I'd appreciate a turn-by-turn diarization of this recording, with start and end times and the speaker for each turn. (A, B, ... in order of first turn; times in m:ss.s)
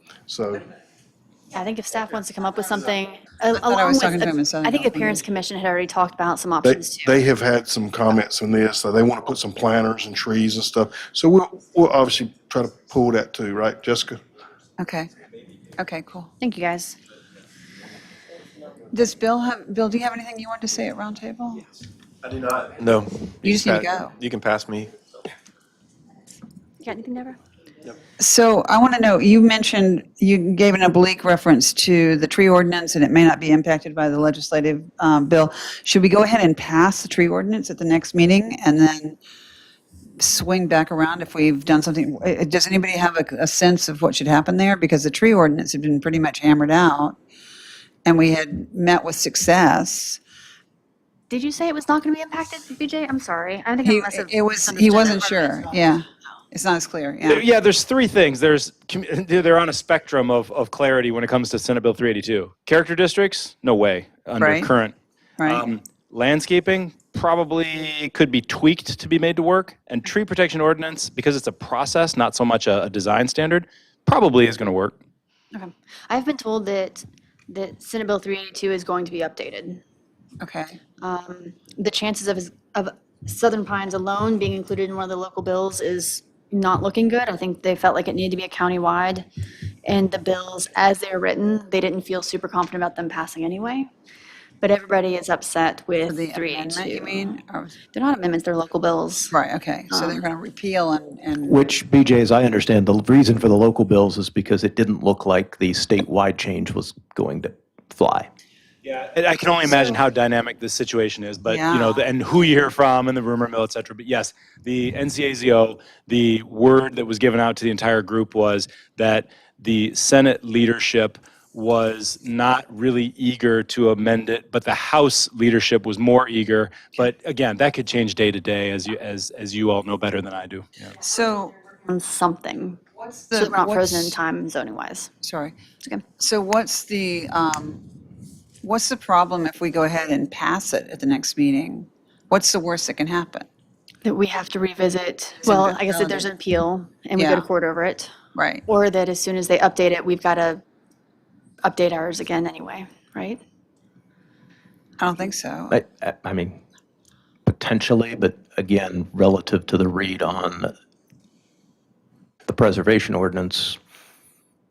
0:00.3-0:00.7 A
0:01.5-0:07.1 B
0:03.6-0:05.2 C
0:06.6-0:14.2 A
0:14.8-0:15.1 C
0:15.8-0:16.3 C
0:16.4-0:17.0 B
0:18.9-0:21.6 C
0:22.3-0:24.9 D
0:23.4-0:24.2 C
0:26.8-0:27.4 B
0:28.2-0:39.2 C
0:40.2-0:47.2 C
0:48.0-0:50.2 C
0:51.3-0:55.9 B
0:53.8-0:57.4 C
0:57.2-1:15.0 E
1:04.4-1:04.7 C
1:05.4-1:05.7 C
1:15.5-1:19.8 B
1:20.4-1:20.8 C
1:21.0-1:29.3 B
1:29.8-1:33.9 B
1:34.6-1:37.3 B
1:36.1-1:37.8 C
1:37.9-1:39.3 B
1:39.3-1:41.8 C
1:39.9-1:40.2 B
1:41.4-1:48.3 F
1:48.8-2:10.9 E
1:51.4-1:52.0 C
2:10.9-2:11.5 C
2:11.8-2:12.8 B
2:13.0-2:14.2 C
2:13.3-2:15.1 B
2:15.2-2:15.6 C
2:16.2-2:17.9 C
2:18.6-2:23.5 C
2:24.0-2:28.1 B
2:25.4-2:26.3 C
2:27.2-2:27.5 C
2:28.4-2:28.6 C
2:28.7-2:30.6 B
2:31.6-2:33.4 B
2:35.0-2:35.8 C
2:35.7-2:36.6 F
2:37.5-2:40.7 F
2:42.5-2:43.8 F